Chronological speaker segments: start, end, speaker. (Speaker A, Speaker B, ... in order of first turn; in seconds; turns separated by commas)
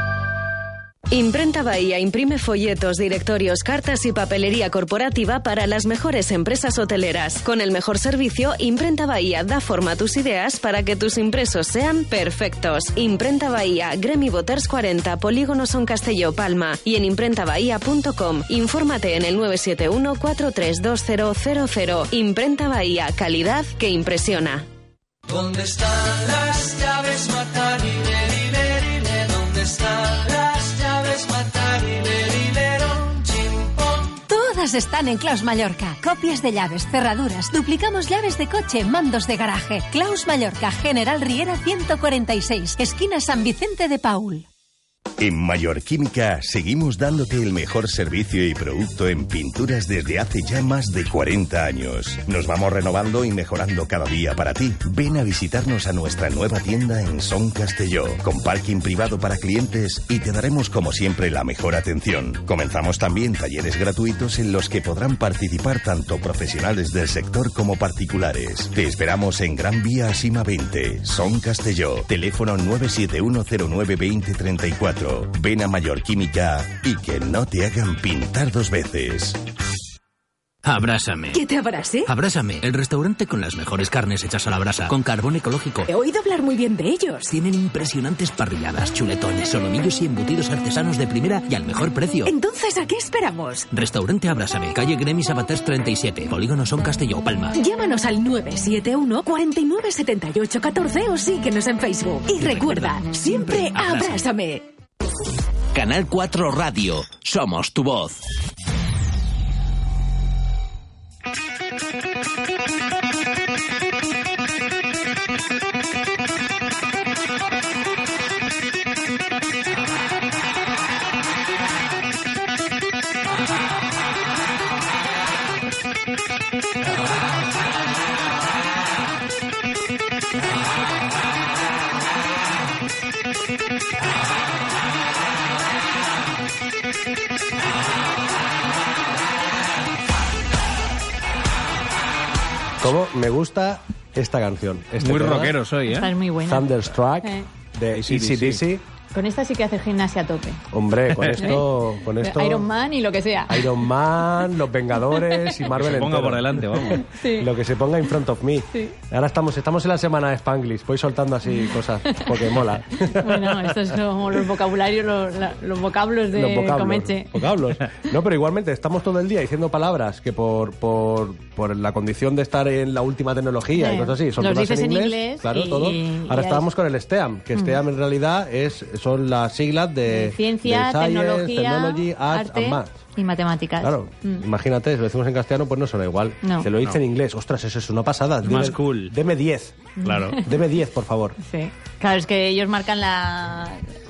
Speaker A: 1.1-24.7, Speaker B: 25.3-34.2, Speaker C: 34.3-44.5, Speaker D: 45.2-79.4, Speaker E: 80.7-81.4, Speaker F: 81.3-82.1, Speaker E: 82.1-85.9, Speaker F: 85.9-87.3, Speaker E: 87.3-92.3, Speaker F: 92.3-93.7, Speaker E: 93.7-97.5, Speaker F: 97.5-104.6, Speaker E: 102.3-104.2, Speaker E: 105.8-108.2, Speaker G: 142.8-145.5, Speaker H: 145.0-146.1, Speaker I: 145.9-146.7, Speaker G: 146.4-148.8, Speaker H: 147.9-148.6, Speaker I: 149.1-150.6, Speaker G: 150.7-152.7, Speaker I: 152.2-153.7, Speaker G: 153.5-164.0, Speaker I: 155.1-155.5, Speaker H: 155.7-157.1, Speaker I: 157.0-157.5, Speaker I: 161.6-167.4, Speaker G: 166.3-183.0, Speaker I: 173.8-176.7, Speaker I: 177.5-177.8, Speaker I: 180.1-184.4, Speaker G: 183.8-189.8, Speaker I: 186.4-186.7, Speaker H: 188.4-189.1, Speaker I: 190.0-190.4, Speaker H: 190.0-190.4, Speaker G: 190.4-191.4, Speaker I: 191.4-193.8